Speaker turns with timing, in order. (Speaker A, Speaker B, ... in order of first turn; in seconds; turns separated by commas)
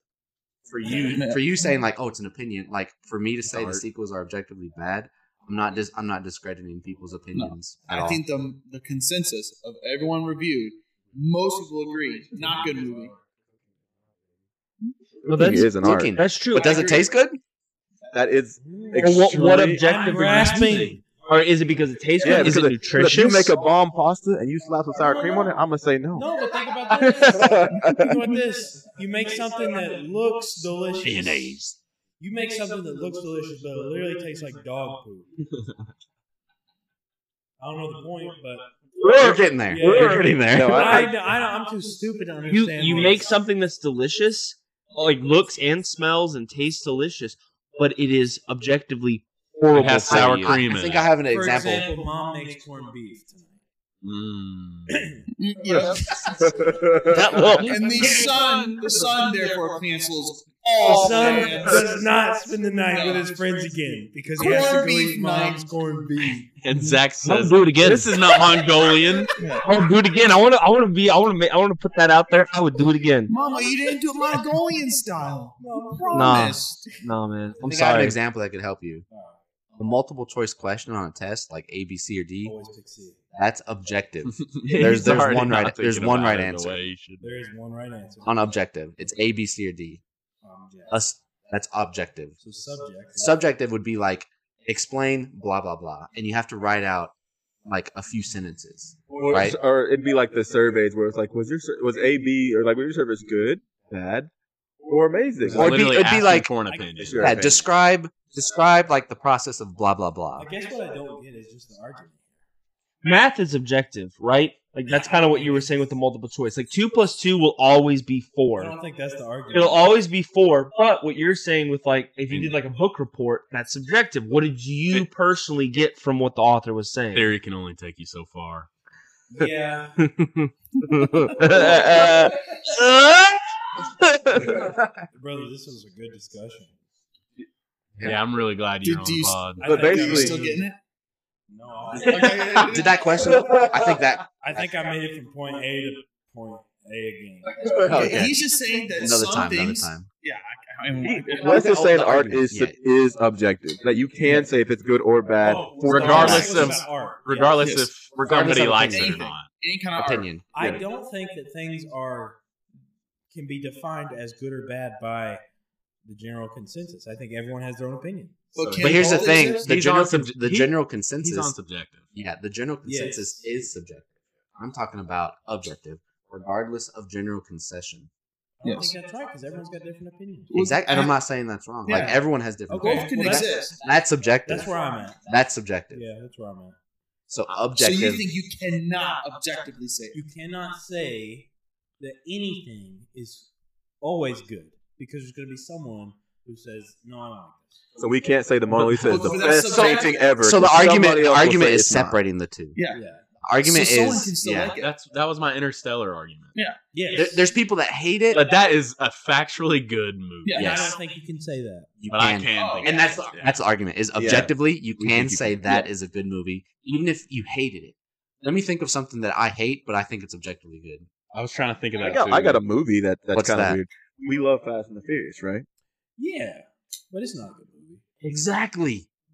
Speaker A: 0.7-8.2, Speaker B: 0.9-1.4, Speaker C: 3.5-3.8, Speaker B: 7.3-13.1, Speaker C: 15.2-16.1, Speaker D: 15.2-16.7, Speaker A: 15.7-17.4, Speaker B: 16.5-17.1, Speaker C: 18.1-19.9, Speaker E: 18.6-21.0, Speaker D: 18.9-23.6, Speaker C: 22.2-26.3, Speaker E: 26.1-31.6, Speaker C: 27.0-28.2, Speaker A: 31.0-31.8, Speaker F: 31.1-31.7, Speaker E: 32.2-35.3, Speaker E: 37.6-38.7, Speaker D: 39.0-39.4, Speaker A: 39.1-41.1, Speaker E: 39.7-43.3, Speaker C: 39.8-41.1, Speaker D: 42.5-50.6, Speaker F: 49.7-51.1, Speaker A: 50.1-51.9, Speaker E: 51.3-53.5, Speaker F: 54.0-55.0, Speaker E: 54.9-55.2, Speaker B: 55.4-56.4, Speaker C: 56.3-57.5, Speaker D: 57.1-57.8, Speaker F: 57.6-59.8, Speaker B: 57.6-62.0, Speaker E: 58.0-58.3, Speaker E: 60.8-66.5, Speaker B: 62.9-63.4, Speaker B: 64.3-65.7, Speaker F: 66.6-69.3, Speaker B: 66.7-67.0, Speaker D: 67.2-68.2, Speaker B: 69.4-69.7, Speaker D: 69.6-73.3, Speaker B: 73.3-77.0, Speaker E: 75.6-76.7, Speaker D: 76.1-78.2, Speaker A: 77.6-79.0, Speaker E: 79.1-79.4, Speaker A: 79.8-82.6, Speaker E: 82.4-83.2, Speaker A: 83.3-86.8, Speaker F: 84.3-87.3, Speaker E: 87.2-88.4, Speaker A: 88.2-90.0, Speaker E: 90.4-90.9, Speaker A: 90.9-92.3, Speaker E: 92.4-93.4, Speaker A: 93.2-97.1, Speaker A: 97.6-99.6, Speaker C: 99.1-104.3, Speaker C: 104.8-105.8, Speaker E: 105.4-105.8, Speaker F: 105.5-107.6, Speaker A: 105.5-106.5, Speaker E: 106.7-107.2, Speaker C: 107.0-107.6, Speaker A: 107.2-110.5, Speaker E: 110.3-112.2, Speaker D: 113.0-118.7, Speaker E: 118.5-119.8, Speaker D: 119.5-127.3, Speaker F: 122.3-122.6, Speaker F: 127.1-128.7, Speaker E: 129.3-130.0, Speaker D: 130.0-134.6, Speaker E: 131.4-132.3, Speaker E: 135.1-136.7, Speaker F: 138.0-139.7, Speaker B: 138.8-140.8, Speaker E: 139.6-140.7, Speaker C: 139.6-140.4, Speaker E: 141.5-142.9, Speaker B: 142.0-142.9, Speaker A: 142.5-144.7, Speaker E: 144.4-147.7, Speaker A: 147.8-148.4, Speaker B: 147.9-151.8, Speaker A: 148.9-150.1, Speaker C: 151.0-156.7, Speaker A: 151.4-152.8, Speaker E: 155.4-157.6, Speaker F: 155.8-159.5, Speaker A: 156.1-156.7, Speaker B: 157.4-160.4, Speaker A: 158.2-159.3, Speaker A: 159.9-160.7, Speaker E: 160.5-162.4, Speaker E: 163.3-165.4, Speaker E: 166.1-168.8, Speaker B: 168.5-169.8, Speaker C: 168.6-169.0, Speaker A: 168.8-171.5, Speaker F: 169.4-172.1, Speaker A: 172.1-178.1, Speaker E: 172.8-173.4, Speaker E: 178.6-180.5, Speaker B: 178.6-178.9, Speaker B: 180.5-181.1, Speaker A: 180.5-184.7, Speaker B: 181.8-182.2, Speaker E: 182.7-183.7, Speaker B: 182.7-183.8, Speaker E: 184.4-185.2, Speaker A: 185.2-186.0, Speaker E: 185.9-186.8, Speaker A: 187.3-188.3, Speaker B: 187.8-190.2, Speaker E: 190.1-191.5, Speaker E: 192.0-193.5, Speaker E: 194.0-197.8, Speaker C: 198.0-202.2, Speaker E: 198.8-199.3, Speaker B: 198.9-200.4, Speaker A: 199.7-202.8, Speaker B: 202.7-203.0, Speaker E: 202.9-203.2, Speaker A: 203.4-204.8, Speaker B: 203.6-204.9, Speaker F: 204.7-206.6, Speaker B: 206.5-206.8, Speaker E: 206.9-207.4, Speaker A: 207.1-208.4, Speaker F: 208.3-210.7, Speaker B: 210.4-210.8, Speaker A: 210.6-210.9, Speaker E: 210.6-211.9, Speaker A: 212.0-221.1, Speaker F: 212.1-213.6, Speaker B: 212.5-213.0, Speaker C: 214.2-215.9, Speaker F: 221.3-222.7, Speaker C: 222.0-225.7, Speaker A: 223.3-223.8, Speaker E: 226.2-228.0, Speaker A: 228.2-229.1